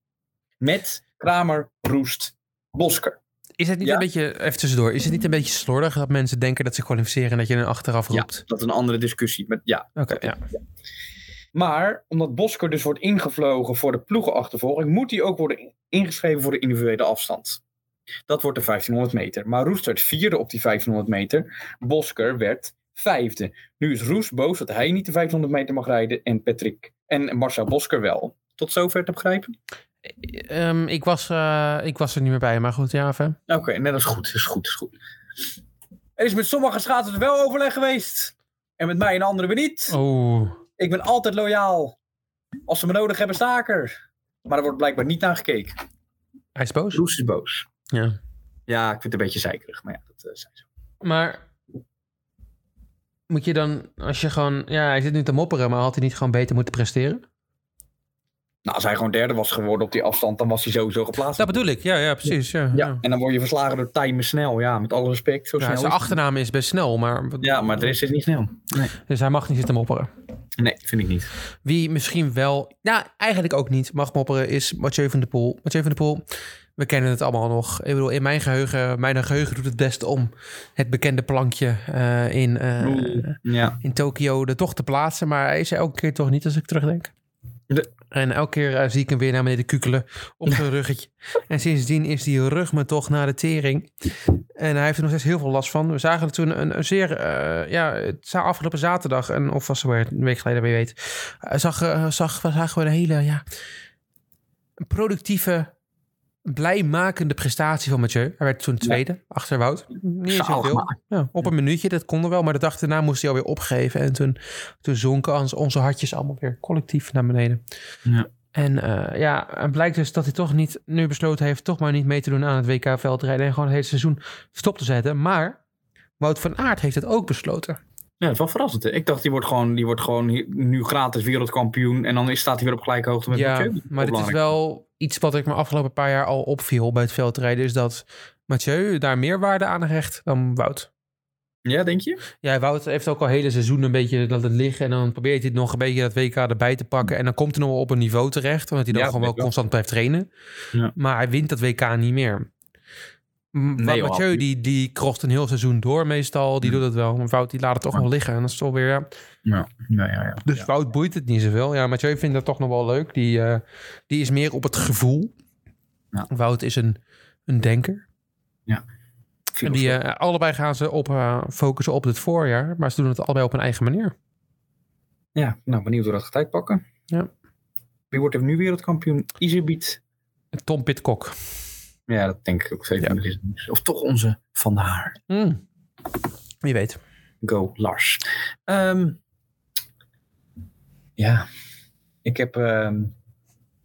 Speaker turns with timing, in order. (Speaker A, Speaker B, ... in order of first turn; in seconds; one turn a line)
Speaker A: 0.6-3.2
Speaker B: 3.6-8.4
Speaker A: 3.8-4.1
Speaker A: 8.1-10.3
Speaker B: 10.0-10.4
Speaker A: 11.5-17.6
Speaker A: 18.3-29.5
Speaker B: 30.1-33.4
Speaker A: 33.5-34.9
Speaker A: 36.2-40.0
Speaker B: 39.9-40.6
Speaker A: 40.8-42.0
Speaker A: 42.7-43.9
Speaker A: 44.5-45.8
Speaker B: 46.6-47.0
Speaker A: 46.9-47.7
Speaker B: 47.9-48.2
Speaker A: 48.7-50.6
Speaker B: 51.0-51.4
Speaker B: 53.3-57.2
Speaker A: 58.6-61.6
Speaker B: 61.4-63.0
Speaker A: 62.7-66.2
Speaker B: 65.6-68.0
Speaker A: 67.4-68.9
Speaker B: 69.0-70.1
Speaker A: 70.6-71.3
Speaker B: 71.6-76.2
Speaker B: 76.8-87.1
Speaker A: 82.8-83.8
Speaker B: 88.1-103.4
Speaker B: 104.8-105.7
Speaker B: 106.5-117.6
Speaker A: 110.3-111.0
Speaker B: 118.5-125.6
Speaker B: 126.2-127.8
Speaker A: 128.2-134.4
Speaker B: 133.3-140.9
Speaker A: 141.7-142.2
Speaker B: 142.4-150.3
Speaker A: 148.9-149.5
Speaker B: 150.9-152.5
Speaker B: 153.5-159.1
Speaker A: 153.8-154.4
Speaker A: 159.5-160.7
Speaker B: 160.5-165.3
Speaker B: 166.3-168.1
Speaker A: 169.5-170.0
Speaker B: 169.6-174.1
Speaker A: 175.3-176.8
Speaker A: 178.1-180.0
Speaker B: 180.6-181.3
Speaker A: 182.1-185.2
Speaker B: 185.3-185.6
Speaker B: 186.6-187.0
Speaker A: 187.4-189.2
Speaker A: 191.2-191.5
Speaker A: 192.2-193.1